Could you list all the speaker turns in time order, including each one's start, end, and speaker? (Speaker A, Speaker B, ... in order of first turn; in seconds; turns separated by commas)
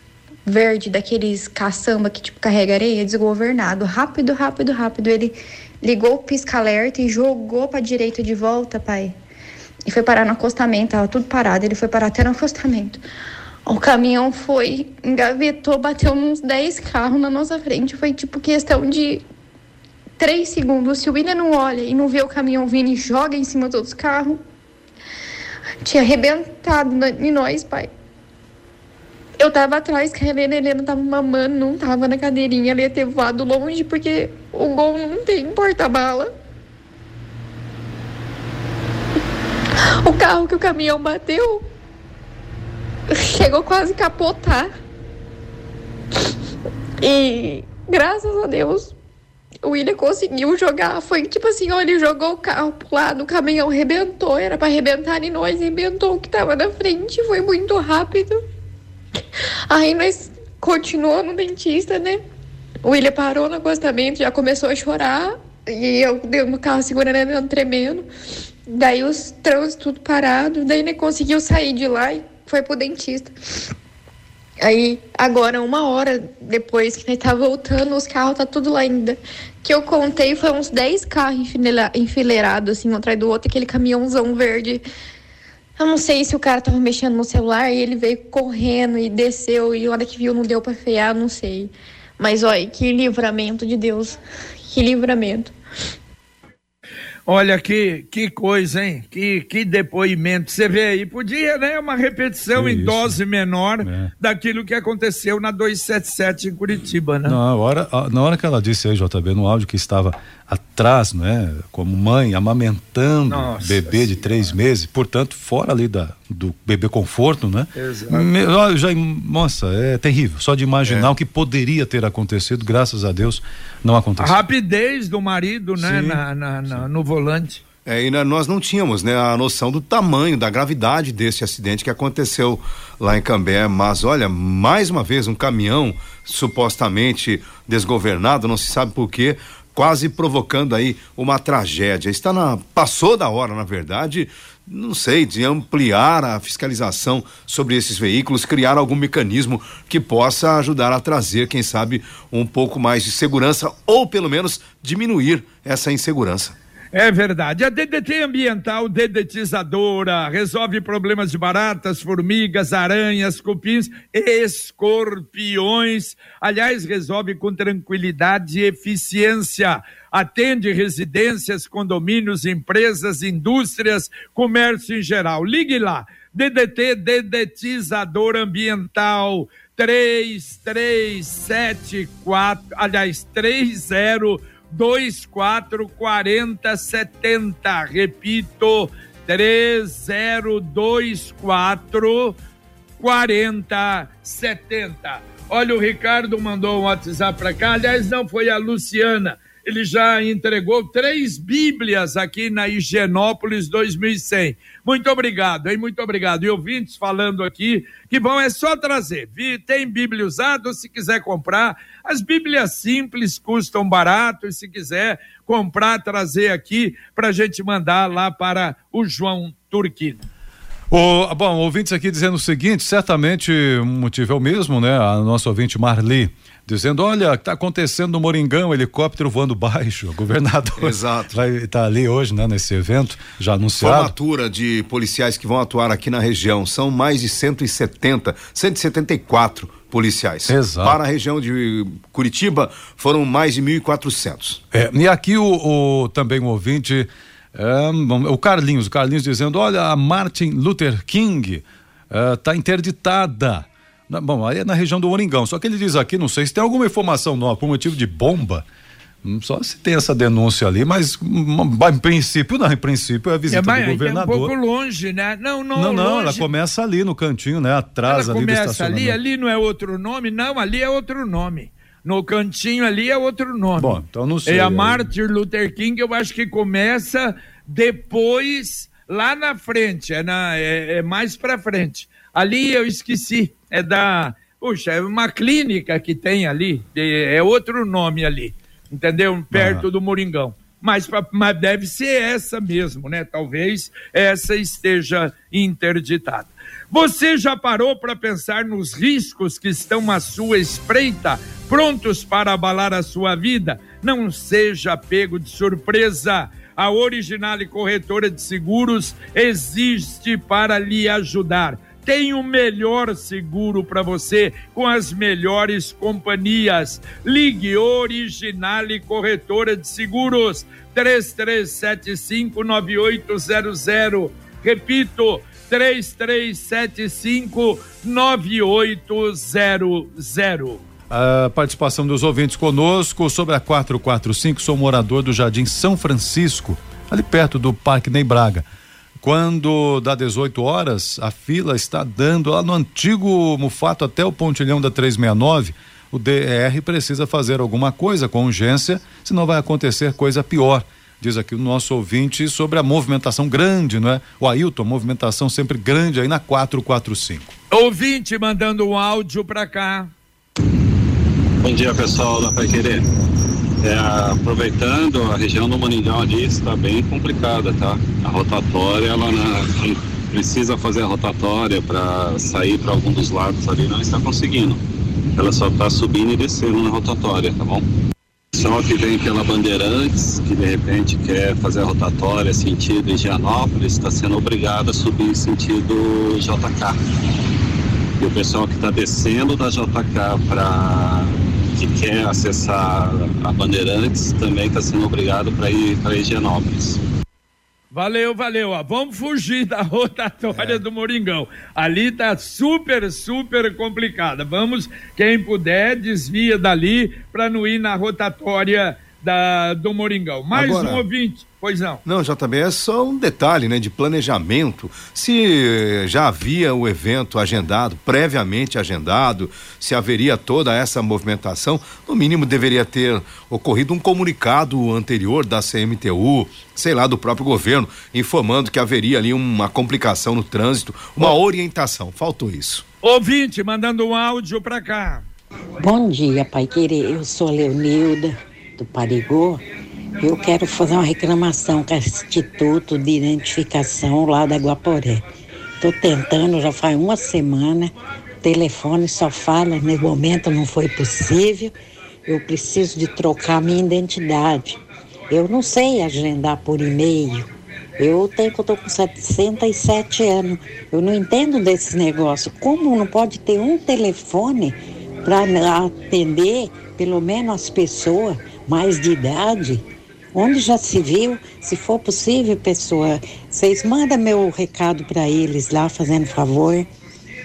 Speaker A: 0.5-9.1, Speaker A: 9.8-13.0, Speaker A: 13.7-19.2, Speaker A: 20.2-24.4, Speaker A: 25.8-27.9, Speaker A: 29.4-36.3, Speaker A: 40.0-41.7, Speaker A: 43.1-44.7, Speaker A: 47.0-48.9, Speaker A: 49.6-58.4, Speaker A: 59.7-62.2, Speaker A: 62.8-68.1, Speaker A: 68.7-73.3, Speaker A: 74.6-84.8, Speaker A: 85.8-94.2, Speaker A: 94.7-95.5, Speaker B: 97.2-107.4, Speaker C: 102.5-103.2, Speaker C: 103.8-104.1, Speaker C: 107.2-124.4, Speaker B: 113.3-114.5, Speaker B: 117.7-118.3, Speaker D: 120.8-121.1, Speaker B: 124.2-127.6, Speaker C: 125.8-126.2, Speaker D: 127.8-156.5, Speaker B: 156.9-192.4, Speaker B: 193.0-220.2, Speaker C: 220.9-234.1, Speaker D: 230.8-231.4, Speaker D: 233.8-244.6, Speaker C: 240.5-241.0, Speaker C: 244.7-258.6, Speaker C: 259.2-264.5, Speaker B: 263.5-266.5, Speaker C: 265.7-269.2, Speaker B: 268.0-330.8, Speaker C: 273.8-275.1, Speaker C: 289.5-289.9, Speaker C: 331.1-338.7, Speaker C: 339.2-357.5, Speaker B: 357.7-360.1, Speaker E: 361.6-363.0, Speaker E: 363.8-374.8, Speaker E: 375.4-377.8, Speaker E: 378.5-386.9, Speaker E: 388.2-397.0, Speaker B: 397.9-412.0, Speaker D: 410.5-411.0, Speaker D: 412.0-432.8, Speaker B: 433.0-435.3, Speaker F: 435.8-439.6, Speaker F: 440.2-445.2, Speaker F: 445.8-451.7, Speaker F: 452.2-476.9